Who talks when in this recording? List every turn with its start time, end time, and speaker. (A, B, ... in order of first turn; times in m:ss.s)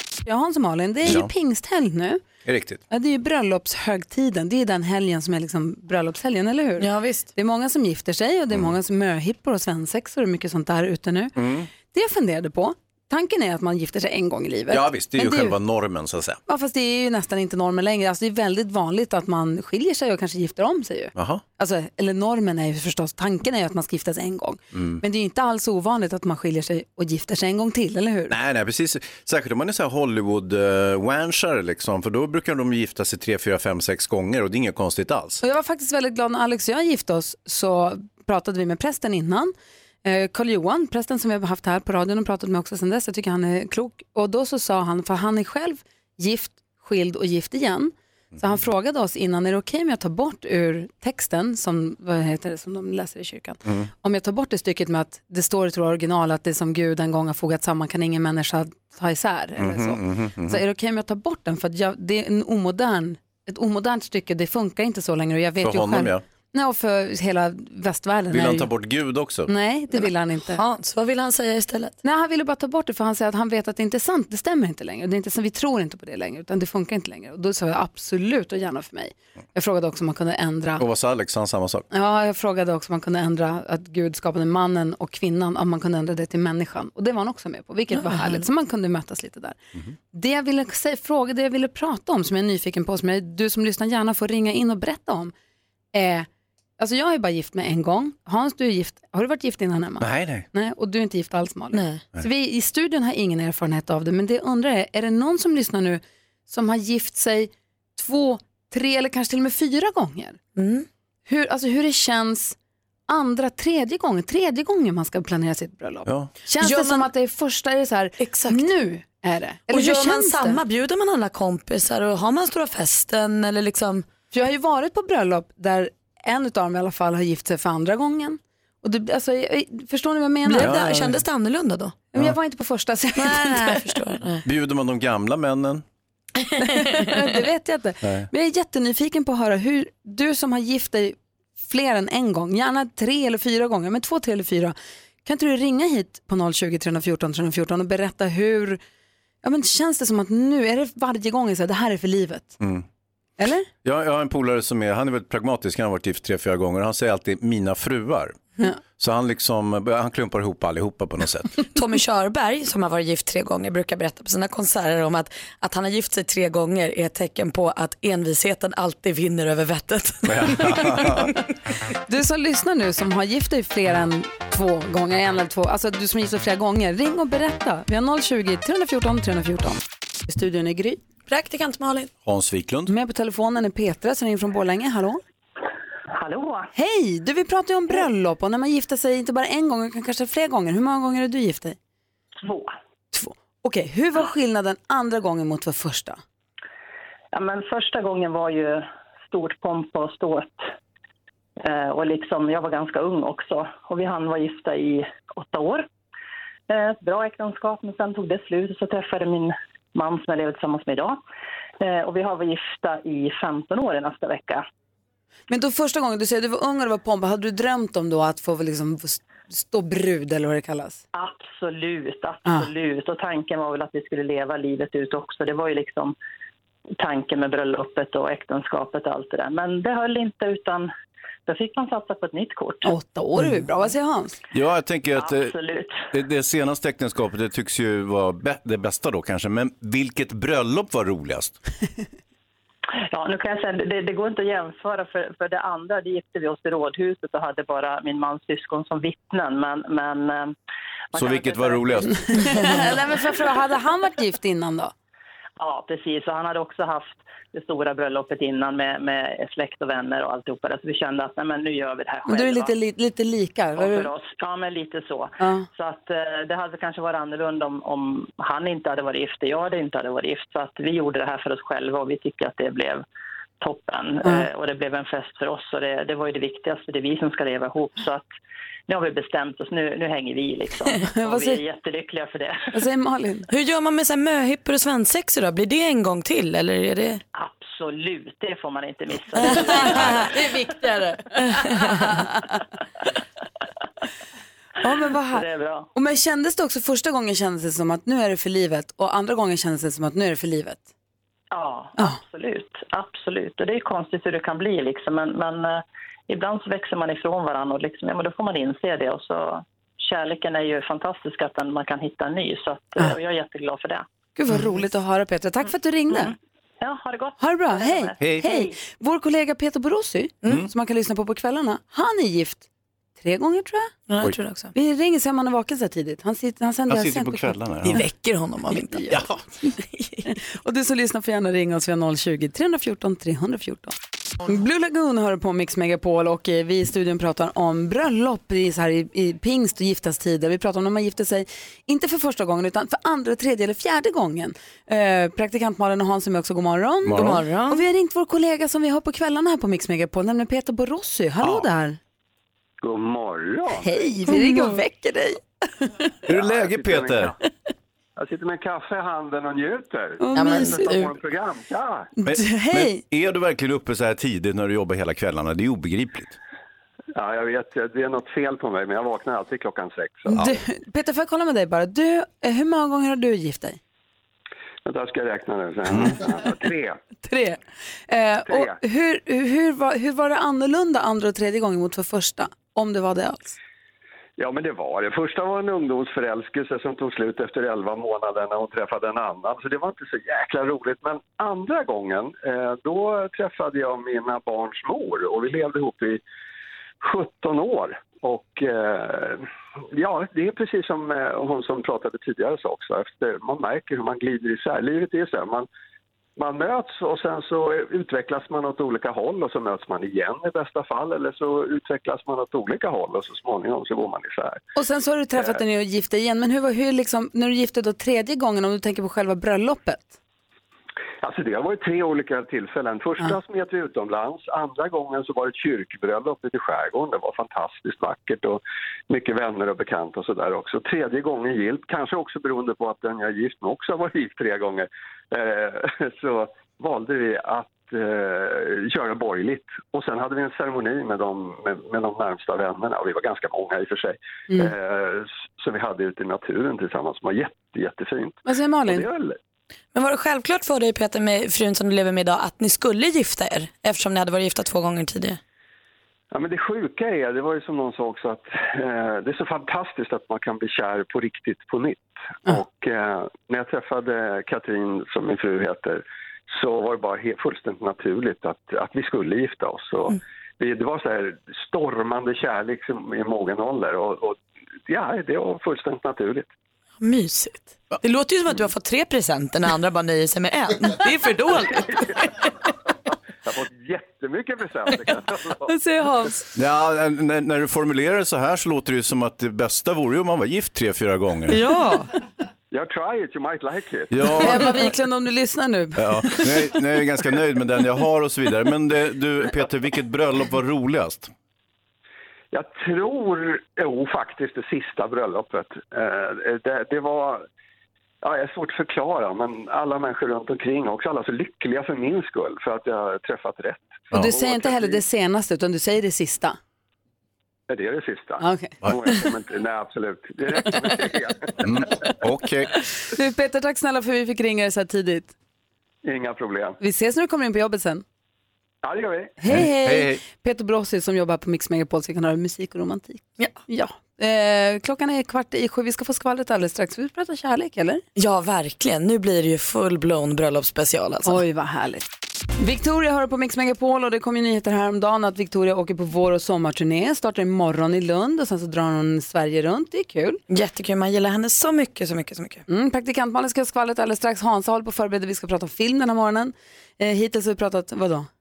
0:00.2-0:02.2 A
0:01.0-0:01.3 B
0:02.4-0:02.8 B
0:02.9-0:11.3 A
0:06.8-0:07.3 C
0:11.4-0:11.7 B
0:11.9-0:15.6 A
0:14.7-0:16.4 B
0:16.5-0:28.3 A
0:21.1-0:21.4 B
0:24.7-0:25.0 B
0:28.3-0:35.4 B
0:35.4-1:08.7 A
0:53.6-0:53.9 B
0:59.6-1:00.6 B
1:05.6-1:06.2 B
1:08.3-1:09.5 B
1:09.5-1:10.6 A
1:09.9-1:12.0 C
1:12.0-1:20.8 A
1:20.8-1:21.9 B
1:21.9-1:29.6 A
1:27.9-1:28.4 C
1:30.1-1:35.3 A
1:35.9-1:36.3 A
1:36.8-1:50.4 A
1:40.0-1:40.4 B
1:41.7-1:42.0 C
1:50.6-1:50.8 C
1:51.3-1:52.6 A
1:53.1-2:00.6 A
1:56.0-1:56.3 B
1:56.6-1:57.1 C
1:58.2-1:58.7 C
1:59.7-2:04.0 C
2:04.3-2:10.8 A
2:10.4-2:12.0 C
2:10.6-2:11.2 B
2:12.1-2:14.0 A
2:13.2-2:14.4 C
2:14.4-2:15.8 B
2:16.4-2:16.8 C
2:16.6-2:28.8 A
2:18.0-2:18.3 B
2:29.4-2:32.6 A
2:33.4-2:33.7 A
2:33.8-2:38.4 B
2:38.9-2:41.6 B
2:41.7-2:51.3 C
2:50.3-2:51.3 B
2:52.1-3:01.0 A
3:01.3-3:02.1 C
3:02.2-3:02.9 B
3:02.9-3:05.2 A
3:06.1-3:06.7 D
3:06.7-3:11.8 A
3:12.4-3:12.7 D
3:13.1-3:16.2 A
3:17.3-3:20.6 D
3:21.6-3:25.9 D
3:26.7-3:31.2 D
3:31.8-3:34.6 D
3:35.5-3:41.0 A
3:41.1-3:46.1 D
3:47.0-3:50.9 D
3:51.5-3:52.9 D
3:52.8-3:54.4 A
3:54.5-3:55.5 B
3:55.1-3:56.1 D
3:56.1-4:01.6 B
4:03.1-4:10.5 D
4:11.1-4:12.1 D
4:11.1-4:12.8 B
4:12.3-4:14.9 A
4:15.6-4:22.7 D
4:22.3-4:24.1 A
4:23.8-4:33.0 D
4:25.4-4:25.7 A
4:33.6-4:38.2 D
4:38.9-4:42.7 D
4:41.1-4:41.6 A
4:42.7-4:43.5 A
4:43.5-4:47.2 C
4:47.3-4:50.7 D
4:49.4-4:50.0 C
4:49.5-4:49.8 A
4:50.4-4:52.4 A
4:51.5-4:51.8 C
4:54.8-5:00.9 A
4:55.3-4:55.9 D
5:01.5-5:14.0 D
5:14.4-5:16.3 A
5:16.1-5:18.8 D
5:17.4-5:22.6 A
5:18.2-5:18.4 B
5:23.2-5:23.9 A
5:24.1-5:24.7 C
5:24.7-5:28.0 A
5:26.9-5:28.0 B
5:27.8-5:29.2 C
5:28.8-5:29.2 A
5:29.1-5:29.4 B
5:29.9-5:30.2 C
5:30.2-5:52.0 A
5:47.0-5:47.4 B
5:47.1-5:47.8 C
5:52.8-5:54.0 E
5:53.8-5:56.0 A
5:54.3-5:54.7 C
5:56.3-5:57.3 B
5:56.3-5:57.3 E
5:58.2-6:02.1 E
6:00.2-6:00.9 A
6:00.3-6:01.1 C
6:02.2-6:03.0 A
6:02.2-6:06.4 B
6:07.1-6:10.5 E
6:10.3-6:13.8 A
6:14.8-6:17.0 E
6:17.2-6:23.6 A
6:18.5-6:18.8 E
6:24.4-6:36.2 E
6:37.0-6:45.7 E
6:46.4-6:54.6 E
6:54.8-7:00.2 A
7:01.2-7:29.4 E
7:28.4-7:29.1 A
7:29.9-7:35.4 C
7:36.3-7:56.5 E
7:57.0-8:02.4 C
8:03.4-8:05.7 E
8:05.7-8:06.5 A
8:06.5-8:11.6 B
8:11.5-8:12.1 C
8:12.7-8:14.4 E
8:14.1-8:14.8 B
8:14.4-8:16.5 A
8:16.0-8:21.3 B
8:22.5-8:27.4 E
8:28.2-8:35.0 E
8:34.1-8:36.6 A
8:37.7-8:41.8 E
8:38.4-8:38.7 A
8:41.6-8:42.7 B
8:43.1-8:45.3 A
8:46.0-8:46.8 E
8:46.8-8:48.0 A
8:48.8-8:49.4 E
8:49.4-8:58.0 A
8:49.4-8:50.2 B
8:58.2-9:01.4 C
9:01.2-9:02.1 A
9:02.6-9:10.4 A
9:10.5-9:12.6 C
9:12.7-9:18.3 A